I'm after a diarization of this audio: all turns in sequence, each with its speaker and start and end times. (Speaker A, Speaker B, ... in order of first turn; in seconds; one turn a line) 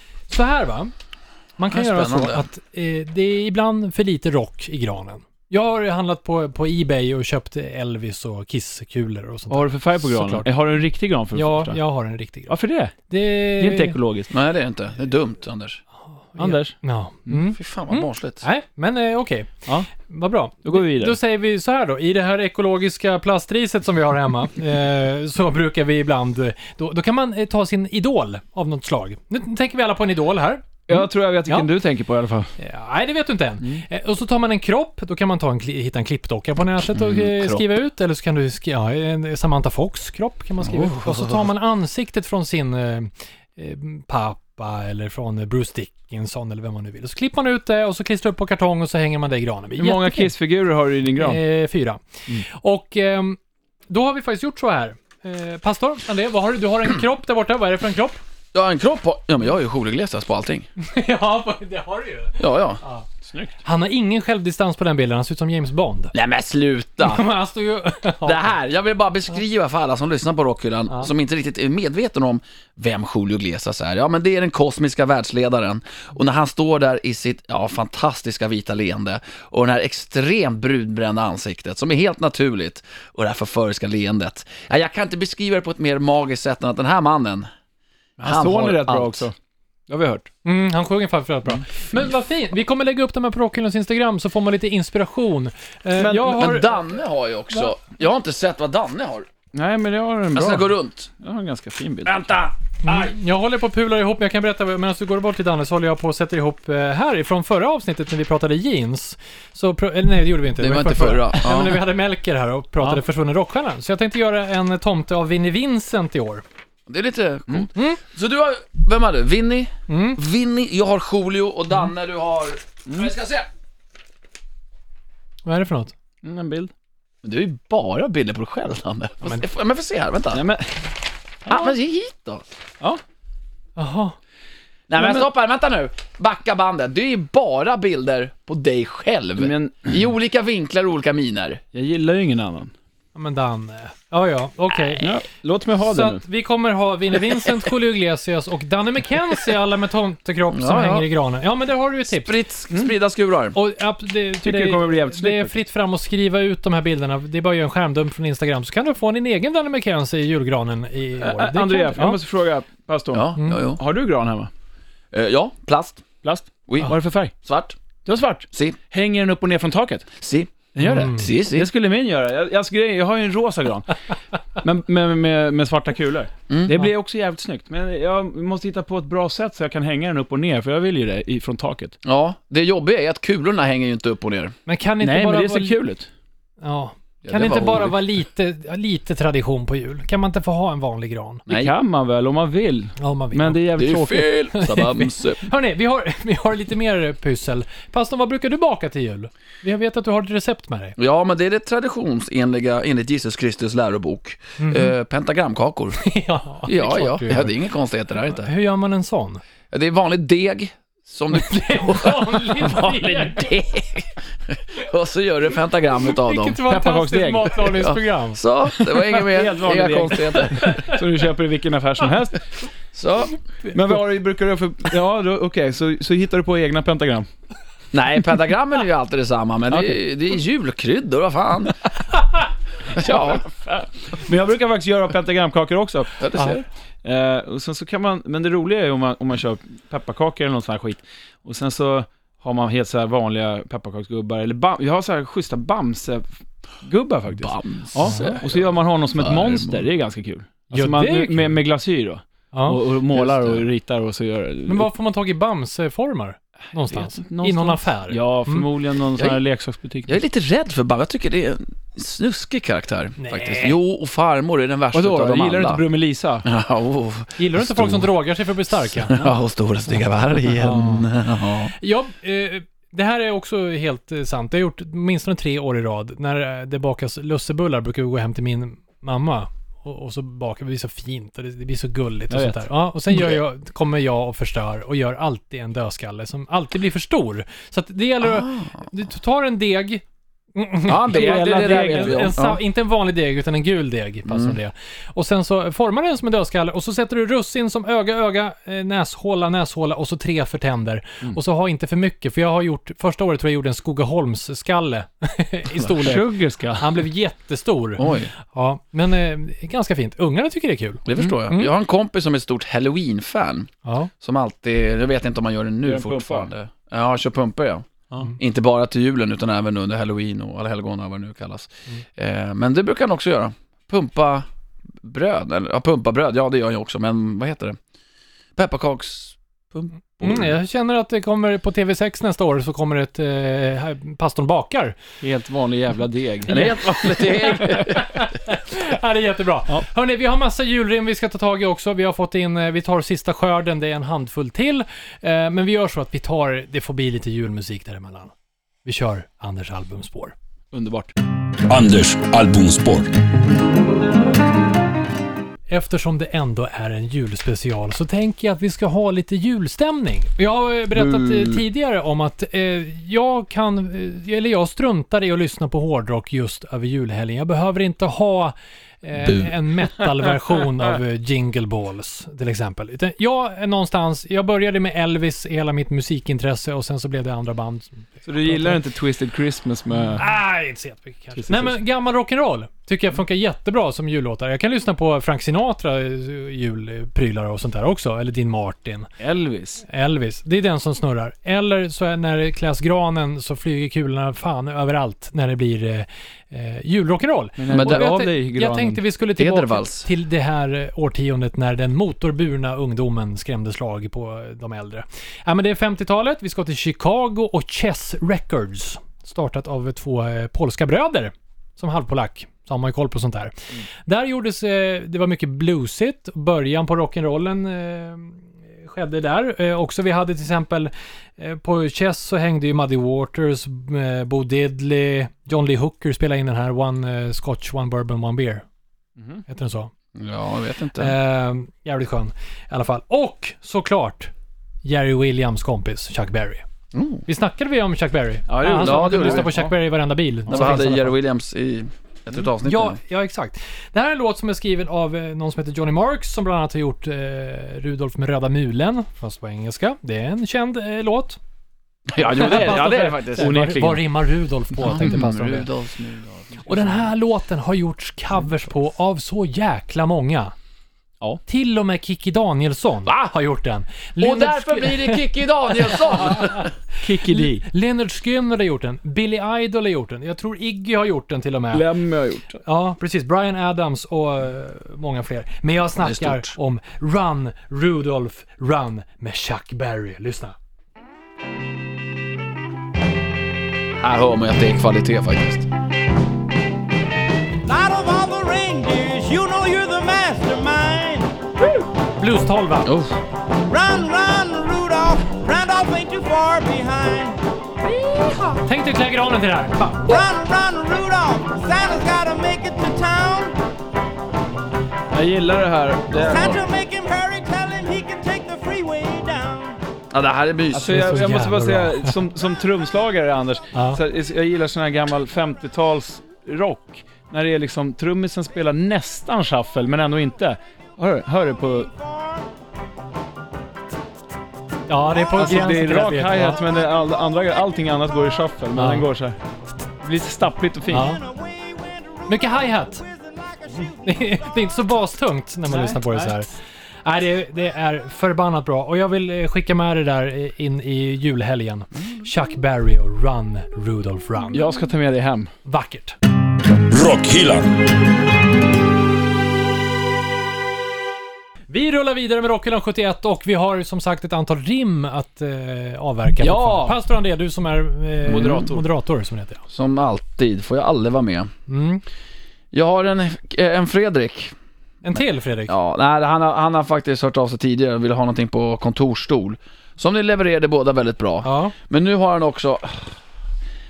Speaker A: 0.3-0.9
Speaker A: 1.6-10.5
Speaker B: 1.7-2.5
Speaker C: 9.5-11.8
Speaker A: 11.3-12.6
Speaker C: 12.5-12.9
Speaker A: 13.1-14.0
Speaker C: 13.6-14.3
Speaker B: 14.3-15.8
Speaker A: 16.3-31.7
Speaker C: 16.4-16.7
Speaker B: 17.5-18.4
Speaker C: 20.6-21.2
Speaker C: 30.9-32.5
Speaker A: 32.6-50.3
Speaker B: 36.9-37.7
Speaker B: 40.6-41.5
Speaker C: 49.8-51.4
Speaker A: 51.2-53.4
Speaker A: 53.9-58.2
Speaker B: 58.5-60.7
Speaker A: 60.8-63.1
Speaker B: 62.4-62.8
Speaker C: 63.2-63.5
Speaker A: 63.6-66.1
Speaker B: 66.1-67.3
Speaker A: 67.0-68.5
Speaker B: 68.2-87.5
Speaker C: 88.2-89.3
Speaker B: 88.2-89.3
Speaker C: 89.9-90.3
Speaker A: 90.5-96.8
Speaker C: 96.0-96.5
Speaker B: 96.2-99.3
Speaker C: 99.5-102.2
Speaker B: 100.3-101.1
Speaker B: 102.0-103.1
Speaker A: 102.8-116.4
Speaker B: 110.6-111.8
Speaker B: 116.9-123.5
Speaker A: 117.8-118.0
Speaker A: 119.9-120.2
Speaker A: 125.5-125.9
Speaker C: 126.2-126.7
Speaker B: 127.2-130.4
Speaker C: 130.3-130.8
Speaker C: 131.5-131.7
Speaker B: 131.5-132.4
Speaker A: 133.8-134.2
Speaker B: 134.9-141.6
Speaker C: 134.9-135.3
Speaker C: 139.4-139.9
Speaker C: 141.7-142.7
Speaker A: 143.2-145.1
Speaker C: 145.0-146.2
Speaker A: 145.8-152.3
Speaker B: 150.5-151.1
Speaker B: 152.1-153.6
Speaker A: 153.5-162.2
Speaker C: 154.4-155.6
Speaker C: 161.2-164.5
Speaker B: 163.1-163.8
Speaker B: 165.1-166.0
Speaker C: 166.2-167.3
Speaker B: 166.7-167.8
Speaker C: 168.1-170.1
Speaker B: 168.5-168.8
Speaker B: 170.2-171.7
Speaker C: 170.8-173.9
Speaker A: 170.8-171.3
Speaker C: 174.6-182.0
Speaker B: 176.5-176.8
Speaker B: 182.0-184.5
Speaker A: 184.7-185.8
Speaker C: 185.0-186.1
Speaker A: 186.6-191.4
Speaker B: 187.2-188.0
Speaker B: 191.5-191.7
Speaker C: 191.5-194.3
Speaker A: 193.0-193.6
Speaker B: 193.8-195.4
Speaker A: 194.5-201.0
Speaker B: 201.0-206.0
Speaker A: 204.6-204.9
Speaker A: 206.0-207.5
Speaker B: 206.7-208.5
Speaker A: 208.3-209.4
Speaker B: 209.7-216.6
Speaker A: 211.3-213.5
Speaker A: 216.1-218.4
Speaker C: 216.7-217.6
Speaker B: 217.7-220.8
Speaker C: 219.1-222.5
Speaker A: 220.6-221.0
Speaker B: 222.9-223.4
Speaker C: 223.7-227.3
Speaker B: 227.9-231.8
Speaker C: 229.7-230.0
Speaker B: 232.9-233.5
Speaker C: 233.0-236.5
Speaker B: 236.2-236.6
Speaker C: 237.0-246.3
Speaker C: 246.8-254.9
Speaker B: 247.4-249.9
Speaker A: 248.1-248.4
Speaker A: 250.7-251.5
Speaker A: 252.5-252.8
Speaker B: 253.1-253.7
Speaker A: 254.7-258.7
Speaker C: 256.9-260.1
Speaker B: 260.1-265.8
Speaker A: 263.2-263.8
Speaker C: 264.9-266.5
Speaker B: 266.4-268.1
Speaker A: 267.4-269.2
Speaker B: 268.9-271.7
Speaker A: 270.5-271.1
Speaker A: 271.8-290.0
Speaker C: 282.3-282.6
Speaker B: 288.2-288.8
Speaker A: 290.6-311.7
Speaker B: 290.9-292.6
Speaker C: 291.1-292.3
Speaker B: 294.3-294.6
Speaker C: 305.9-307.1
Speaker B: 308.0-308.3
Speaker B: 311.1-324.5
Speaker A: 313.9-314.1
Speaker C: 315.8-316.5
Speaker B: 325.0-327.8
Speaker B: 328.6-330.6
Speaker A: 330.2-335.0
Speaker C: 335.2-336.6
Speaker B: 336.5-338.2
Speaker A: 336.5-348.3
Speaker A: 348.9-350.4
Speaker C: 350.7-351.1
Speaker D: 351.7-353.1
Speaker A: 355.7-378.8
Speaker B: 360.9-361.6
Speaker B: 369.2-369.5
Speaker C: 378.3-380.2
Speaker A: 380.1-389.1
Speaker C: 381.4-381.8
Speaker C: 389.2-389.8
Speaker A: 389.9-428.6
Speaker C: 397.6-399.0
Speaker B: 397.7-398.1
Speaker B: 399.4-400.1
Speaker C: 429.2-429.4
Speaker A: 429.5-429.9
Speaker B: 430.2-431.1
Speaker A: 431.0-434.3
Speaker A: 434.8-436.6
Speaker B: 436.9-437.2
Speaker A: 437.3-441.2
Speaker C: 438.5-439.7
Speaker B: 438.7-439.5
Speaker B: 440.5-443.0
Speaker A: 442.6-451.4
Speaker B: 452.1-453.5
Speaker C: 452.2-454.1
Speaker A: 452.4-455.7
Speaker B: 454.8-457.1
Speaker A: 456.7-460.6
Speaker A: 461.5-465.2
Speaker B: 463.1-463.3
Speaker B: 464.2-466.7
Speaker A: 465.8-466.7
Speaker C: 467.0-467.6
Speaker A: 467.2-471.9
Speaker C: 471.7-472.6
Speaker A: 472.6-480.6
Speaker B: 476.0-476.6
Speaker B: 484.0-485.7
Speaker E: 487.6-491.4
Speaker A: 492.2-492.9
Speaker B: 492.9-493.2
Speaker E: 493.7-497.4
Speaker E: 498.0-498.6
Speaker A: 498.6-500.2
Speaker E: 500.1-503.5
Speaker C: 505.1-506.6
Speaker E: 506.2-509.8
Speaker B: 510.1-511.1
Speaker C: 510.7-521.9
Speaker A: 510.9-512.2
Speaker A: 513.7-514.0
Speaker E: 521.9-522.5
Speaker A: 524.9-526.6
Speaker C: 525.4-529.4
Speaker A: 528.8-529.1
Speaker C: 530.0-531.2
Speaker A: 530.9-531.2
Speaker E: 530.9-534.7
Speaker A: 532.3-533.0
Speaker A: 534.0-536.5
Speaker C: 535.7-536.4
Speaker A: 537.0-544.6
Speaker C: 544.5-545.5
Speaker A: 545.6-546.2
Speaker D: 546.8-547.7
Speaker A: 551.7-559.6
Speaker C: 556.4-557.0
Speaker B: 558.3-558.7
Speaker C: 558.3-558.8
Speaker B: 559.7-561.5
Speaker A: 561.7-562.0
Speaker B: 562.7-564.5
Speaker A: 565.0-565.7
Speaker B: 565.7-573.2
Speaker A: 571.4-571.8